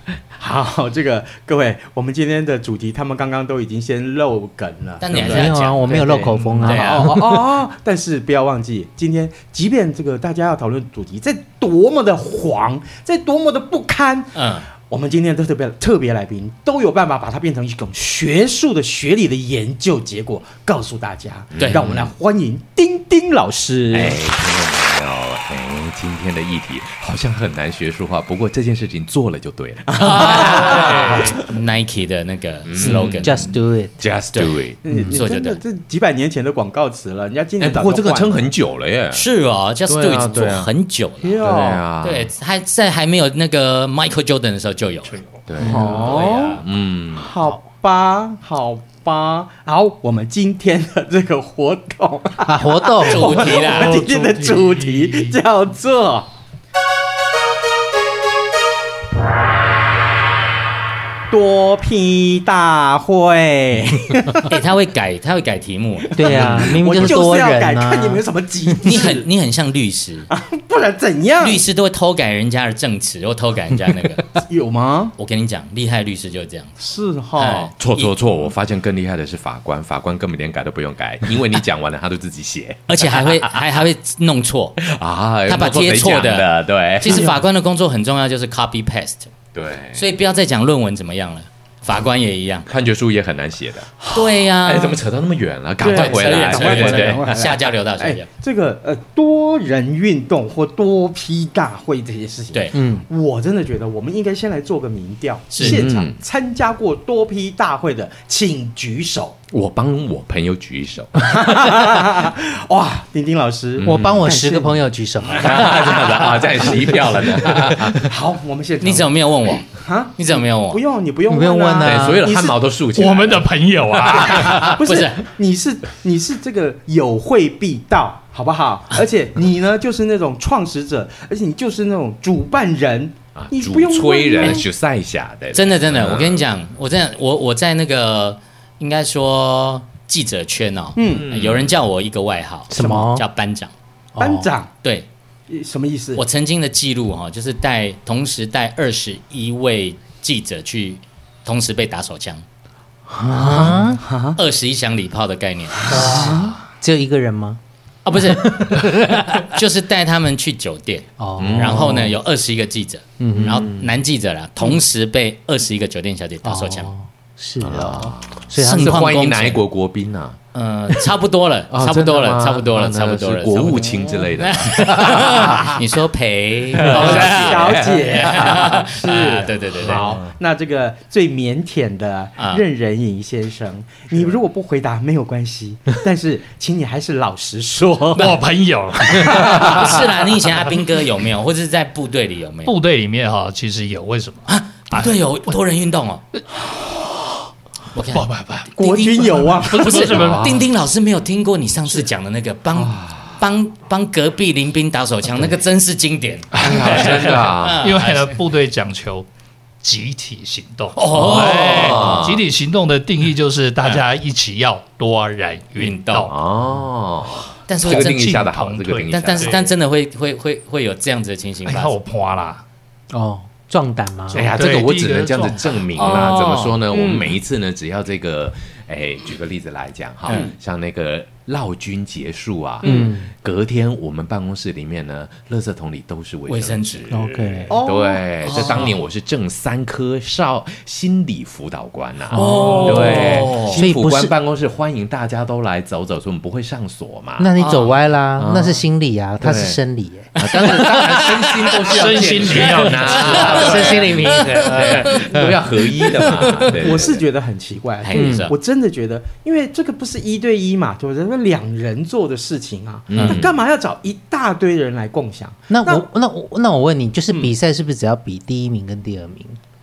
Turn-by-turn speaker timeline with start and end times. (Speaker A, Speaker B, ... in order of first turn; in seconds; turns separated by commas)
Speaker A: 0.4-14.3, Speaker B: 5.0-7.1, Speaker C: 5.1-7.5, Speaker D: 5.1-5.4, Speaker E: 6.3-6.6, Speaker B: 14.3-14.7, Speaker A: 14.9-24.2, Speaker D: 21.5-22.1, Speaker B: 21.6-21.8, Speaker D: 23.9-31.1, Speaker A: 29.9-31.3, Speaker B: 30.0-33.6, Speaker E: 30.7-31.3, Speaker D: 32.6-33.4, Speaker C: 32.8-33.9, Speaker D: 34.0-35.0, Speaker B: 34.3-34.6, Speaker A: 34.8-38.5, Speaker B: 35.1-35.6, Speaker D: 37.6-39.2, Speaker B: 39.1-41.3, Speaker D: 39.9-40.7, Speaker A: 41.2-41.8, Speaker D: 41.4-42.3, Speaker B: 42.0-46.6, Speaker D: 45.5-47.3, Speaker A: 45.6-46.6, Speaker A: 47.1-56.3, Speaker C: 52.4-53.4, Speaker B: 53.0-54.0, Speaker E: 53.3-55.4, Speaker A: 61.3-64.5, Speaker B: 64.5-67.1, Speaker C: 66.2-68.2, Speaker A: 66.2-69.2, Speaker B: 68.8-70.3, Speaker A: 70.3-71.6, Speaker B: 71.4-74.3, Speaker A: 74.4-75.1, Speaker B: 75.2-76.7, Speaker A: 76.8-77.7, Speaker B: 77.3-78.1, Speaker D: 77.8-83.5, Speaker B: 82.9-84.8, Speaker D: 84.8-87.3, Speaker B: 85.5-89.3, Speaker A: 87.0-87.4, Speaker D: 89.5-90.0, Speaker B: 89.9-92.7, Speaker D: 92.7-97.2, Speaker B: 94.1-95.0, Speaker A: 95.8-109.3, Speaker B: 95.8-98.2, Speaker C: 102.7-103.0, Speaker B: 105.5-105.8, Speaker D: 105.6-106.2, Speaker D: 109.5-111.7, Speaker A: 111.2-114.8, Speaker D: 113.8-114.2, Speaker C: 113.8-116.0, Speaker D: 115.4-118.1, Speaker A: 116.6-117.0, Speaker A: 117.9-122.5, Speaker B: 118.8-120.8, Speaker C: 121.3-122.2, Speaker D: 121.8-124.8, Speaker E: 122.9-124.8, Speaker B: 124.6-125.2, Speaker A: 124.7-134.6, Speaker D: 133.3-136.4, Speaker B: 135.5-143.7, Speaker A: 140.9-141.3, Speaker D: 141.1-141.7, Speaker C: 142.7-143.2, Speaker C: 144.2-144.5, Speaker A: 144.2-144.7, Speaker B: 144.8-145.1, Speaker A: 145.5-146.2, Speaker B: 146.2-152.4, Speaker C: 153.1-154.0, Speaker A: 153.4-154.4, Speaker B: 154.3-156.1, Speaker C: 155.9-157.6, Speaker A: 156.0-156.6, Speaker B: 158.0-166.9, Speaker C: 158.3-159.4, Speaker C: 161.2-162.2, Speaker D: 161.4-162.1, Speaker C: 163.2-163.7, Speaker D: 163.4-163.9, Speaker C: 166.4-169.0, Speaker D: 167.6-170.4, Speaker B: 168.6-169.6, Speaker B: 170.5-180.1, Speaker D: 171.7-175.8, Speaker A: 173.8-174.2, Speaker D: 176.8-178.7, Speaker A: 176.9-188.4, Speaker D: 179.8-180.3, Speaker B: 182.4-182.6, Speaker E: 188.1-189.9, Speaker A: 189.1-190.0, Speaker B: 189.3-192.7, Speaker E: 192.6-195.1, Speaker B: 194.5-196.2, Speaker B: 197.9-198.2, Speaker E: 198.0-198.7, Speaker A: 198.8-200.2, Speaker B: 198.8-208.4, Speaker E: 199.2-200.6, Speaker D: 200.2-200.6, Speaker D: 202.7-203.4, Speaker E: 206.5-209.3, Speaker D: 206.6-207.9, Speaker E: 209.8-216.3, Speaker B: 210.9-212.3, Speaker D: 211.1-212.4, Speaker B: 215.8-216.3, Speaker D: 216.3-219.6, Speaker B: 217.7-218.2, Speaker E: 217.8-219.6, Speaker B: 219.1-221.9, Speaker E: 221.7-222.6, Speaker C: 223.1-224.5, Speaker E: 224.3-226.1, Speaker D: 224.3-237.1, Speaker B: 226.0-226.8, Speaker A: 226.9-227.3, Speaker B: 230.2-230.5, Speaker A: 230.3-230.6, Speaker A: 232.8-233.1, Speaker C: 232.8-233.3, Speaker B: 236.5-237.7, Speaker C: 237.1-237.8, Speaker A: 237.7-238.2, Speaker D: 237.8-247.5, Speaker B: 238.4-239.0, Speaker C: 242.3-244.4, Speaker B: 242.3-243.8, Speaker E: 242.6-243.4, Speaker C: 247.4-251.2, Speaker B: 247.6-247.9, Speaker D: 248.4-248.8, Speaker D: 249.4-249.8, Speaker D: 250.3-257.2, Speaker E: 251.8-255.3, Speaker B: 252.8-254.3, Speaker C: 253.3-255.6, Speaker C: 256.2-256.7, Speaker A: 256.8-266.0, Speaker B: 258.0-258.5, Speaker C: 258.1-258.5, Speaker D: 263.1-263.5, Speaker B: 263.1-263.4, Speaker C: 265.7-269.6